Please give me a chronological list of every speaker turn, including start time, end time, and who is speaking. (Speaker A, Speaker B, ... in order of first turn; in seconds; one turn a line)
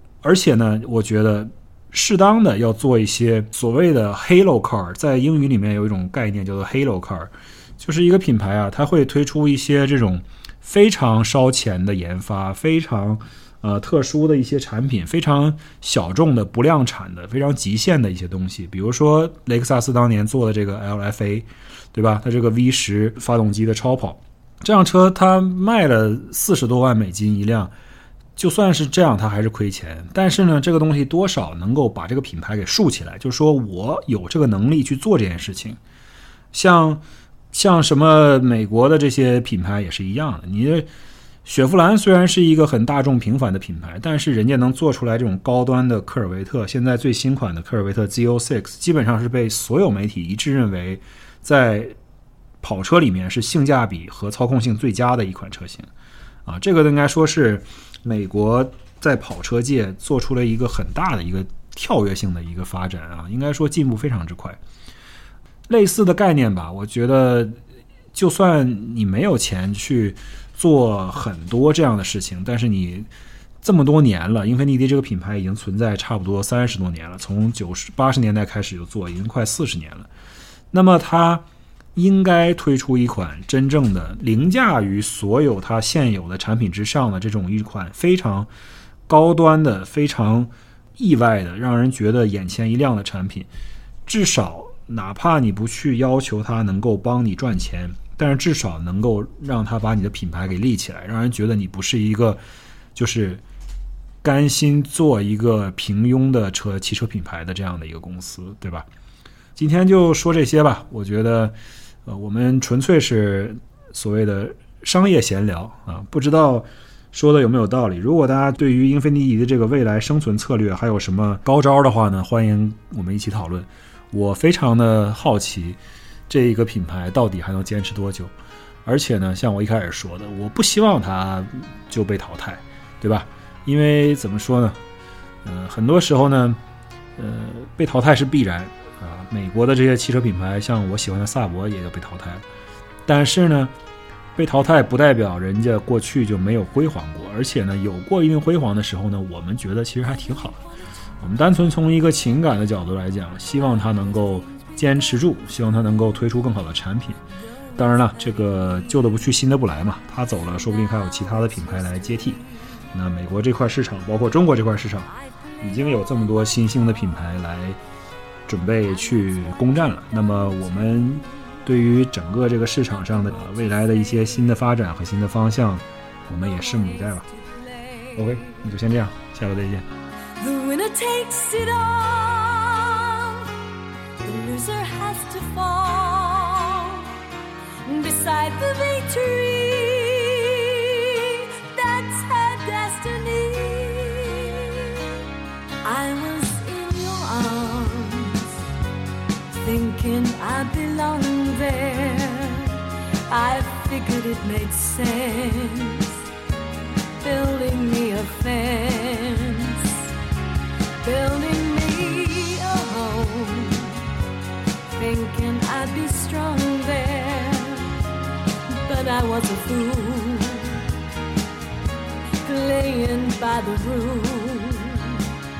Speaker A: 0.2-27.7
Speaker A: 28.4-35.8
Speaker A: 36.5-40.9
Speaker A: 41.4-51.9
Speaker A: 52.6-55.9
Speaker A: 56.5-64.6
Speaker A: 65.7-67.6
Speaker A: 68.1-73.1
Speaker A: 73.6-80.1
Speaker A: 80.7-81.4
Speaker A: 81.9-88.5
Speaker A: 89.1-93.5
Speaker A: 94.0-102.4
Speaker A: 103.0-103.4
Speaker A: 104.2-108.9
Speaker A: 109.5-125.8
Speaker A: 126.3-128.3
Speaker A: 128.9-134.8
Speaker A: 135.4-136.6
Speaker A: 137.2-142.4
Speaker A: 143.1-143.7
Speaker A: 144.4-150.6
Speaker A: 151.2-157.2
Speaker B: 157.7-159.3
Speaker A: 157.8-162.4
Speaker B: 160.4-162.4
Speaker A: 162.9-167.8
Speaker B: 165.1-167.2
Speaker A: 168.5-177.2
Speaker B: 168.8-171.3
Speaker B: 172.6-174.6
Speaker B: 176.3-178.6
Speaker A: 178.2-179.8
Speaker B: 180.4-183.6
Speaker B: 184.2-187.2
Speaker B: 187.8-195.1
Speaker B: 195.8-198.6
Speaker B: 199.5-206.2
Speaker B: 207.2-210.1
Speaker B: 211.0-214.1
Speaker B: 214.9-218.0
Speaker B: 218.7-220.9
Speaker B: 222.4-225.3